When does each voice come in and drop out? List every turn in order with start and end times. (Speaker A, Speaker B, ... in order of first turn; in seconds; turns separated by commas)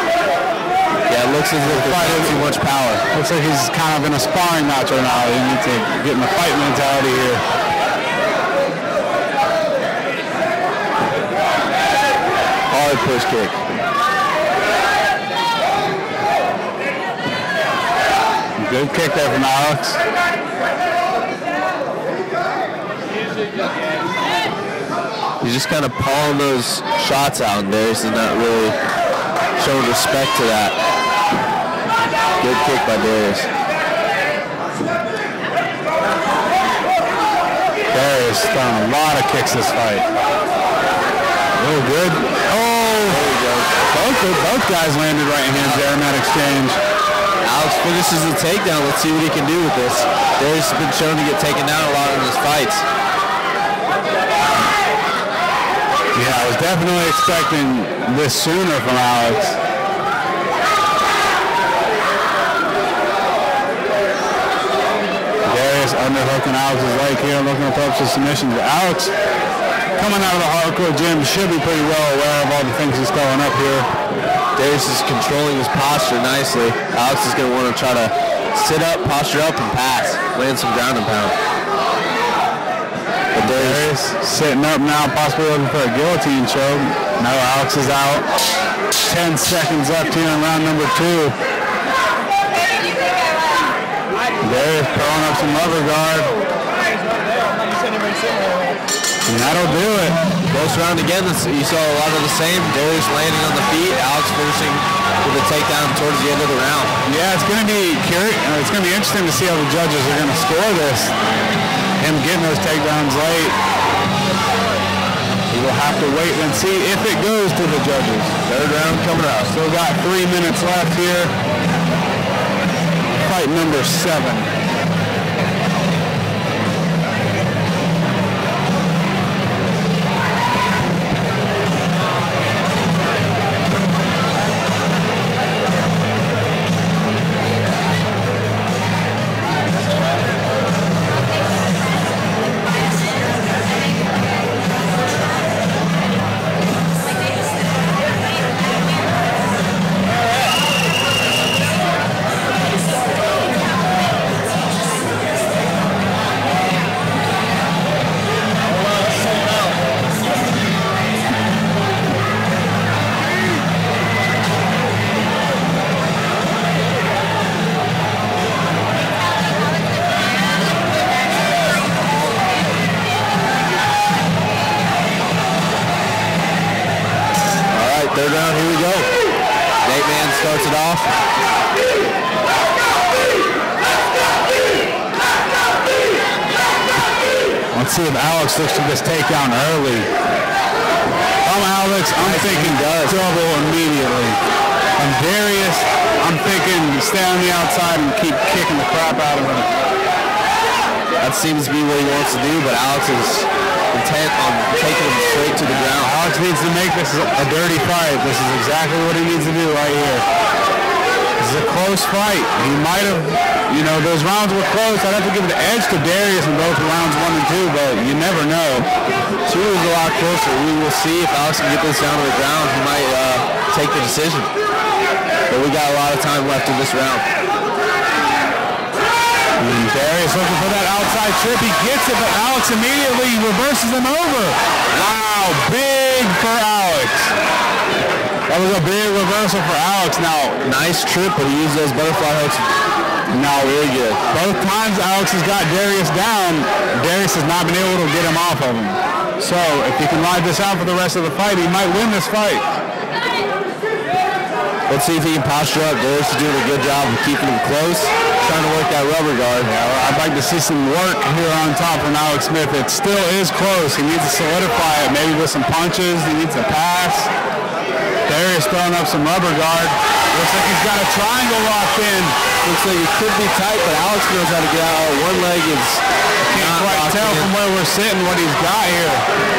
Speaker A: 1.1-3.0, Speaker B: 1.6-7.4, Speaker A: 12.7-13.6, Speaker B: 18.6-20.0, Speaker A: 25.4-28.8, Speaker A: 29.6-30.8, Speaker A: 32.4-33.5, Speaker B: 37.9-40.1, Speaker B: 41.6-43.3, Speaker A: 43.1-43.7, Speaker B: 43.9-46.8, Speaker A: 47.4-52.8, Speaker B: 56.1-59.6, Speaker B: 65.5-69.1, Speaker B: 70.0-73.9, Speaker A: 74.5-81.3, Speaker A: 83.3-83.8, Speaker B: 83.4-88.2, Speaker B: 89.0-91.3, Speaker B: 94.4-96.3, Speaker B: 99.3-100.2, Speaker A: 100.5-106.9, Speaker B: 107.0-111.1, Speaker B: 112.0-113.6, Speaker B: 115.5-118.3, Speaker A: 118.5-119.5, Speaker B: 119.5-121.3, Speaker B: 123.1-124.5, Speaker A: 177.7-179.1, Speaker A: 179.8-181.1, Speaker B: 187.7-190.1, Speaker B: 191.4-194.4, Speaker A: 192.2-193.2, Speaker B: 195.0-199.7, Speaker A: 201.2-206.1, Speaker B: 206.0-210.2, Speaker B: 211.4-218.9, Speaker A: 219.4-224.5, Speaker A: 225.5-227.2, Speaker B: 229.6-237.3, Speaker B: 238.5-240.6, Speaker A: 240.6-242.6, Speaker B: 243.3-243.7, Speaker A: 243.6-244.2, Speaker B: 244.3-252.6, Speaker A: 254.9-259.7, Speaker B: 259.6-267.3, Speaker B: 268.3-272.4, Speaker A: 272.6-277.5, Speaker B: 276.4-279.2